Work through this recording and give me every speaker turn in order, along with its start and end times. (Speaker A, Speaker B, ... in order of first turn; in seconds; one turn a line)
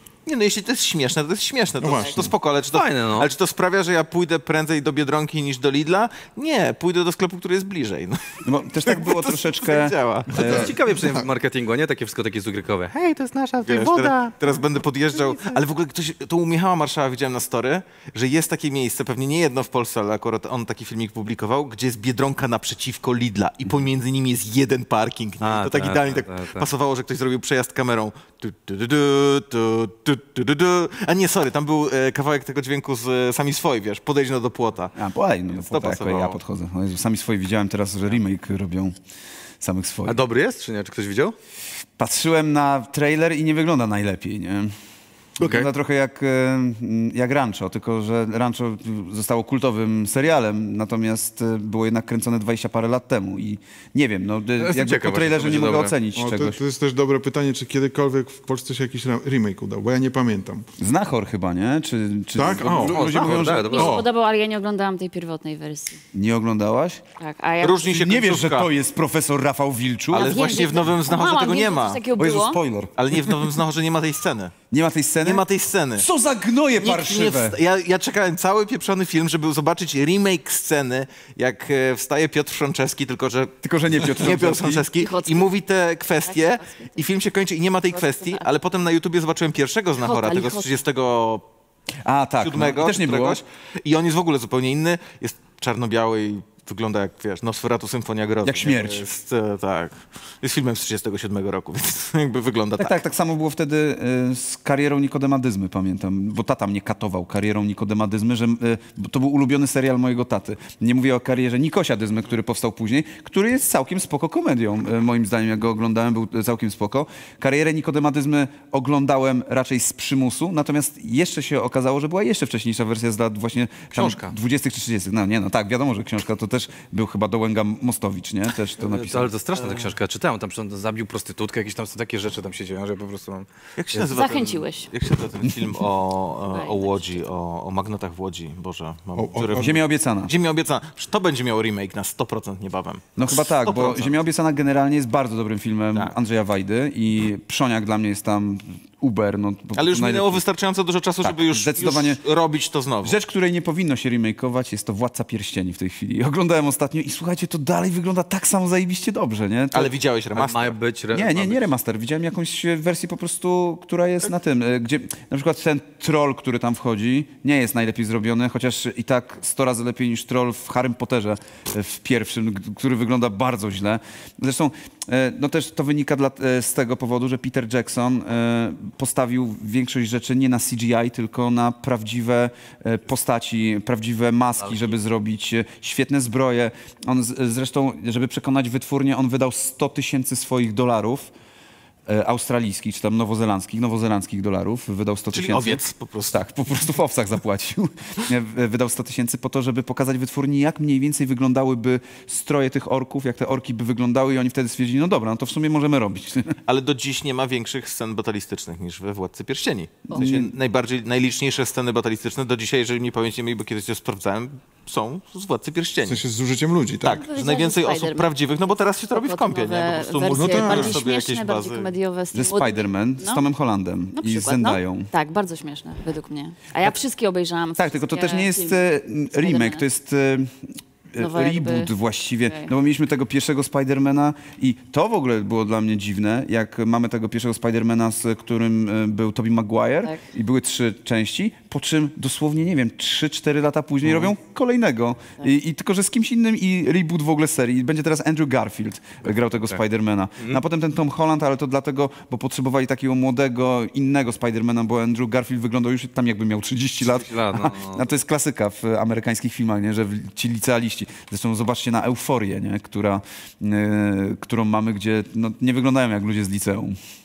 Speaker A: 0.2-10.5
Speaker B: 1.8-2.3
Speaker C: 2.7-3.3
Speaker D: 8.4-10.7
Speaker B: 10.4-11.3
Speaker C: 10.4-14.3
Speaker A: 13.7-34.9
Speaker C: 25.4-26.7
Speaker D: 35.0-39.0
Speaker A: 35.6-36.4
Speaker D: 39.6-40.2
Speaker C: 40.0-41.3
Speaker D: 42.0-44.7
Speaker D: 45.4-56.6
Speaker C: 45.4-45.7
Speaker C: 54.6-56.0
Speaker B: 56.1-60.7
Speaker D: 60.8-64.0
Speaker B: 62.3-64.1
Speaker C: 62.9-64.0
Speaker E: 63.3-66.0
Speaker D: 66.1-67.0
Speaker E: 67.2-67.9
Speaker A: 67.6-68.7
Speaker D: 67.8-70.5
Speaker A: 70.1-72.0
Speaker E: 70.2-72.6
Speaker D: 72.2-73.4
Speaker A: 73.0-74.5
Speaker D: 74.7-75.5
Speaker A: 75.2-76.1
Speaker D: 76.0-77.6
Speaker A: 76.8-91.4
Speaker D: 83.6-84.8
Speaker E: 85.0-85.5
Speaker E: 86.2-86.9
Speaker E: 87.9-88.4
Speaker E: 90.0-90.7
Speaker D: 92.0-93.4
Speaker A: 92.4-103.0
Speaker D: 98.4-99.0
Speaker D: 102.8-129.3
Speaker C: 124.0-124.3
Speaker C: 128.8-134.1
Speaker A: 133.8-144.1
Speaker E: 134.1-134.9
Speaker E: 136.5-137.2
Speaker B: 139.2-139.7
Speaker D: 139.6-140.3
Speaker D: 143.2-150.4
Speaker A: 149.7-153.2
Speaker D: 151.2-152.2
Speaker D: 153.0-159.9
Speaker A: 159.7-160.8
Speaker C: 160.3-161.6
Speaker D: 161.1-191.3
Speaker C: 184.6-184.9
Speaker D: 192.1-206.6
Speaker A: 195.3-196.9
Speaker A: 206.7-216.2
Speaker D: 210.1-210.5
Speaker B: 216.1-217.2
Speaker E: 217.0-218.4
Speaker A: 217.0-221.9
Speaker E: 219.1-223.4
Speaker B: 220.3-221.0
Speaker D: 222.3-225.1
Speaker E: 224.1-229.8
Speaker D: 227.8-266.9
Speaker E: 231.2-232.7
Speaker C: 244.0-244.3
Speaker C: 257.0-258.1